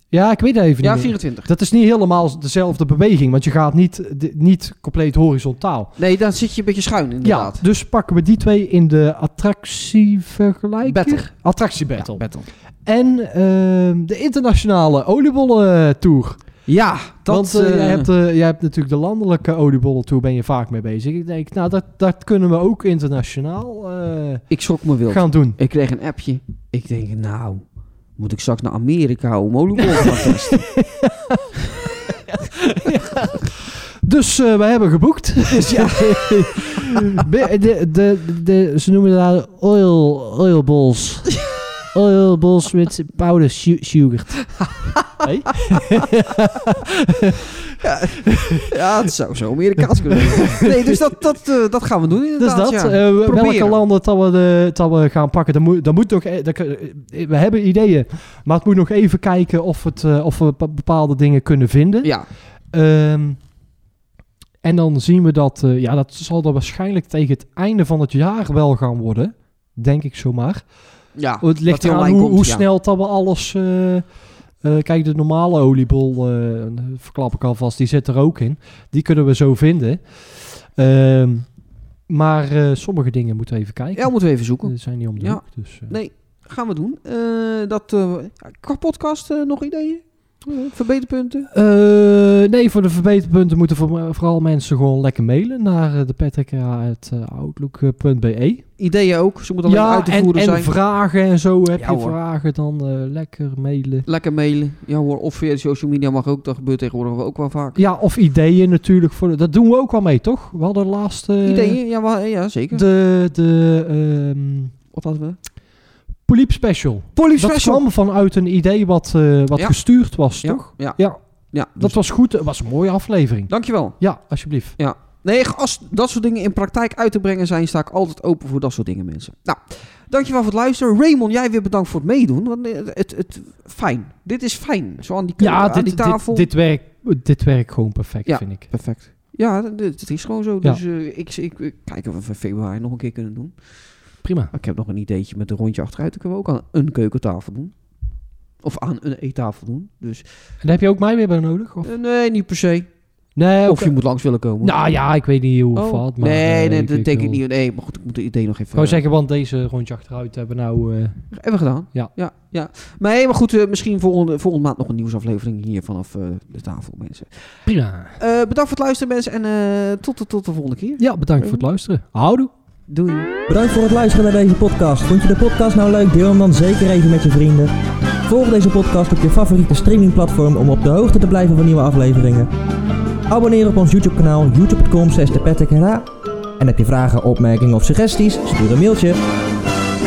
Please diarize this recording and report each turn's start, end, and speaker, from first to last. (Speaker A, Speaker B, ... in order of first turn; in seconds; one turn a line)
Speaker A: 0.1-5.9
Speaker B: 0.8-1.5
Speaker B: 6.0-7.6
Speaker A: 7.2-12.2
Speaker B: 10.8-11.3
Speaker B: 12.0-12.5
Speaker A: 12.8-16.4
Speaker B: 16.7-18.1
Speaker A: 17.3-24.4
Speaker B: 24.5-27.6
Speaker A: 25.1-25.6
Speaker B: 28.2-30.6
Speaker A: 29.8-41.3
Speaker B: 35.6-37.2
Speaker A: 41.9-48.7
Speaker B: 47.8-53.8
Speaker A: 49.9-51.1
Speaker A: 52.4-62.1
Speaker A: 62.7-63.4
Speaker A: 64.6-70.6
Speaker B: 71.2-72.6
Speaker A: 71.4-74.0
Speaker A: 74.6-81.5
Speaker A: 82.1-86.0
Speaker B: 83.9-91.5
Speaker A: 91.5-98.6
Speaker B: 98.8-100.7
Speaker A: 99.6-104.1
Speaker B: 101.7-102.2
Speaker B: 104.0-107.8
Speaker A: 107.8-111.8
Speaker B: 111.4-112.8
Speaker A: 112.7-114.7
Speaker B: 114.9-115.4
Speaker A: 116.2-121.2
Speaker B: 117.2-117.8
Speaker B: 120.4-121.0
Speaker B: 121.5-122.0
Speaker A: 121.8-124.7
Speaker B: 123.5-124.0
Speaker B: 124.8-136.5
Speaker A: 135.4-138.7
Speaker B: 138.3-143.5
Speaker A: 144.2-144.5
Speaker B: 144.5-147.7
Speaker B: 148.6-150.2
Speaker A: 150.6-151.9
Speaker B: 151.8-152.9
Speaker A: 153.3-153.9
Speaker B: 153.7-154.8
Speaker A: 154.6-157.4
Speaker B: 155.7-159.0
Speaker A: 158.7-161.2
Speaker B: 161.3-167.3
Speaker A: 167.7-168.2
Speaker B: 168.2-171.6
Speaker A: 171.0-172.5
Speaker B: 172.9-173.3
Speaker C: 173.5-177.7
Speaker C: 178.3-182.5
Speaker C: 183.3-186.1
Speaker C: 186.6-189.2